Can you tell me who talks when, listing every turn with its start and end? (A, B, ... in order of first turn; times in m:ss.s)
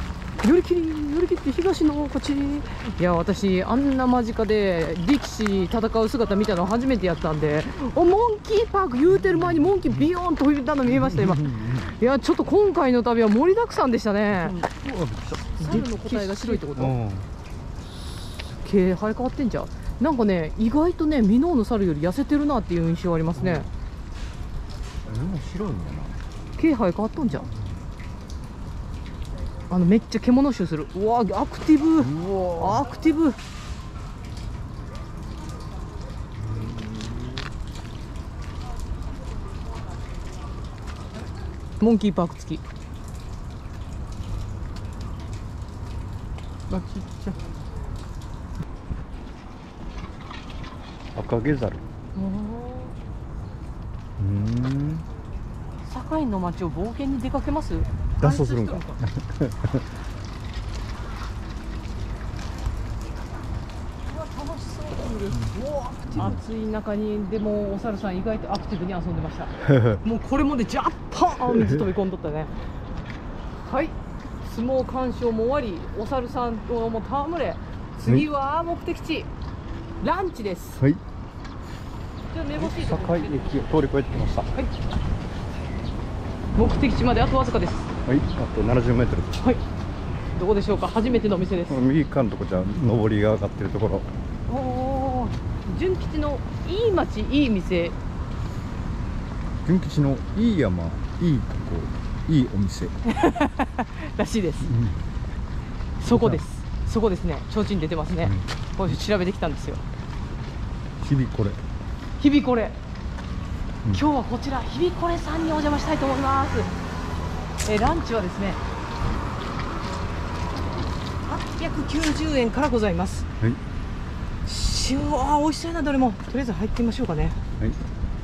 0:00.4-0:14.6 A
0:09.1-0:10.1 B
0:10.9-0:11.9 B
0:14.3-0:17.3 B
0:15.6-0:16.9 A
0:18.6-0:23.7 A
0:23.3-0:23.7 B
0:25.0-0:26.2 B
0:26.6-0:27.5 A
0:27.4-0:27.8 B
0:29.7-0:33.4 A
0:32.0-0:32.8 B
0:36.4-0:37.5 B
0:41.8-0:42.6 A
0:46.7-0:47.4 B
0:51.1-0:51.8 B
0:52.1-0:52.9 A
0:54.2-0:55.1 B
0:55.8-0:59.0 A
0:58.2-0:59.8 B
1:04.0-1:12.5 A
1:06.1-1:06.4 B
1:09.6-1:10.0 B
1:11.4-1:11.8 B
1:13.6-1:19.3 A
1:20.0-1:20.8 A
1:22.3-1:23.4 A
1:22.6-1:24.5 B
1:26.5-1:27.9 A
1:28.0-1:29.4 B
1:30.3-1:31.8 A
1:31.7-1:34.1 B
1:34.5-1:38.0 A
1:39.6-1:43.0 B
1:43.0-1:44.7 A
1:44.6-1:45.0 B
1:46.0-1:49.8 A
1:46.1-1:46.4 B
1:51.0-1:51.6 B
1:52.2-1:52.8 A
1:53.9-1:56.7 A
1:57.6-1:58.6 A
2:01.2-2:03.3 A
2:04.4-2:07.4 A